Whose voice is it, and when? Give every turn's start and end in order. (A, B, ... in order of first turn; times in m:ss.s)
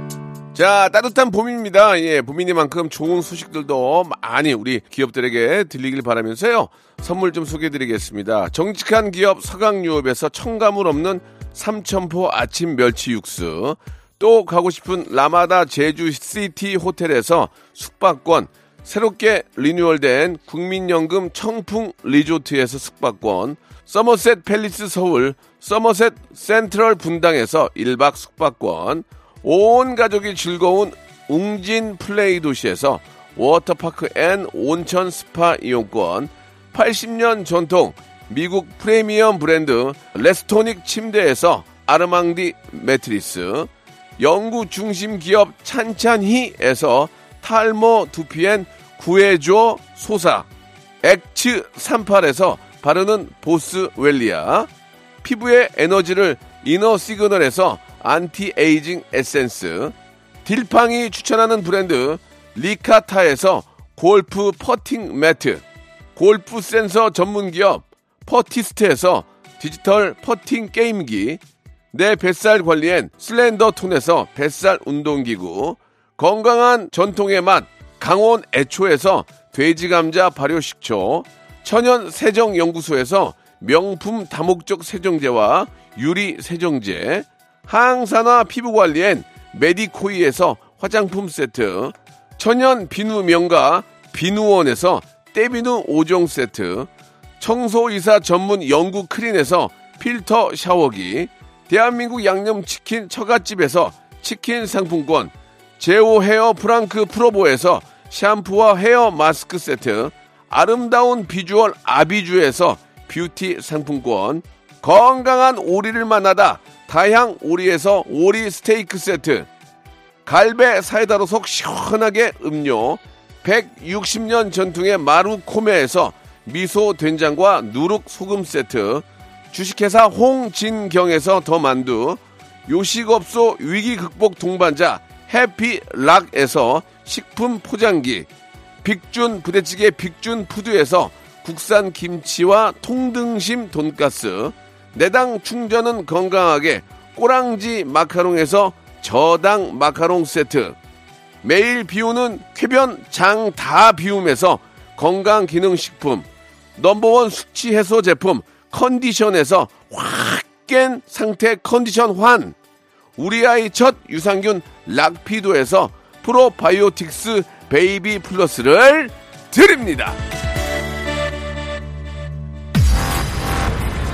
0:00.5-0:50.5 A
0:51.0-0:54.7 A
0:55.2-1:05.6 A
1:06.1-1:11.4 A
1:11.9-1:36.9 A
1:37.4-1:59.5 A
2:00.2-2:18.3 A
2:18.8-2:30.8 A
2:31.4-2:42.5 A
2:43.2-2:50.2 A